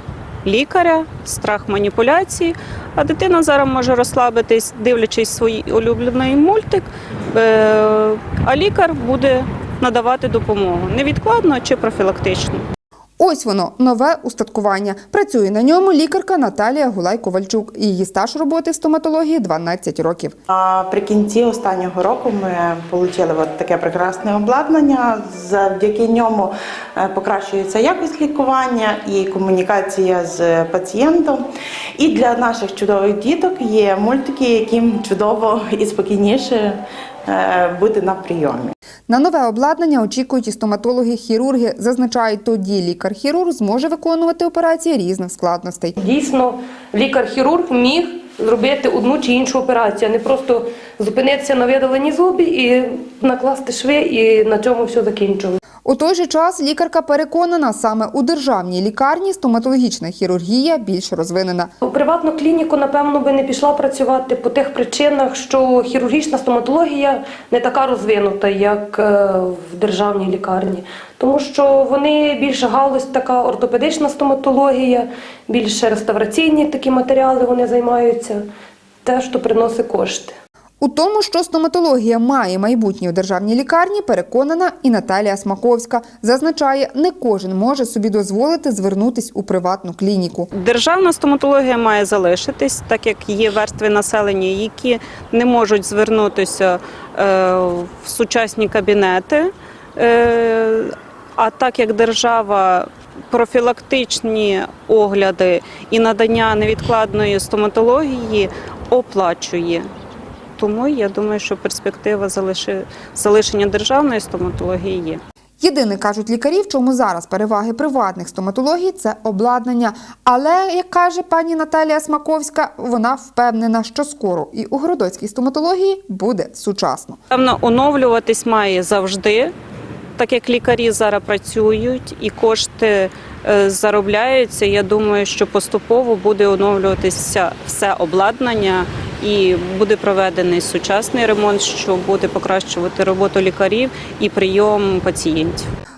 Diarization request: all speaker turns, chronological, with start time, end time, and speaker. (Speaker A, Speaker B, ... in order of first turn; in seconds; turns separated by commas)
Speaker A: 0.4-12.7, Speaker B: 13.2-20.3, Speaker C: 20.5-31.4, Speaker C: 32.0-38.7, Speaker B: 39.1-46.0, Speaker D: 46.0-55.6, Speaker B: 55.9-61.7, Speaker D: 61.8-78.4, Speaker D: 79.0-80.3, Speaker B: 80.8-90.5, Speaker A: 90.5-109.8, Speaker A: 110.6-115.2, Speaker B: 115.6-127.2, Speaker A: 127.3-129.5, Speaker A: 130.2-145.7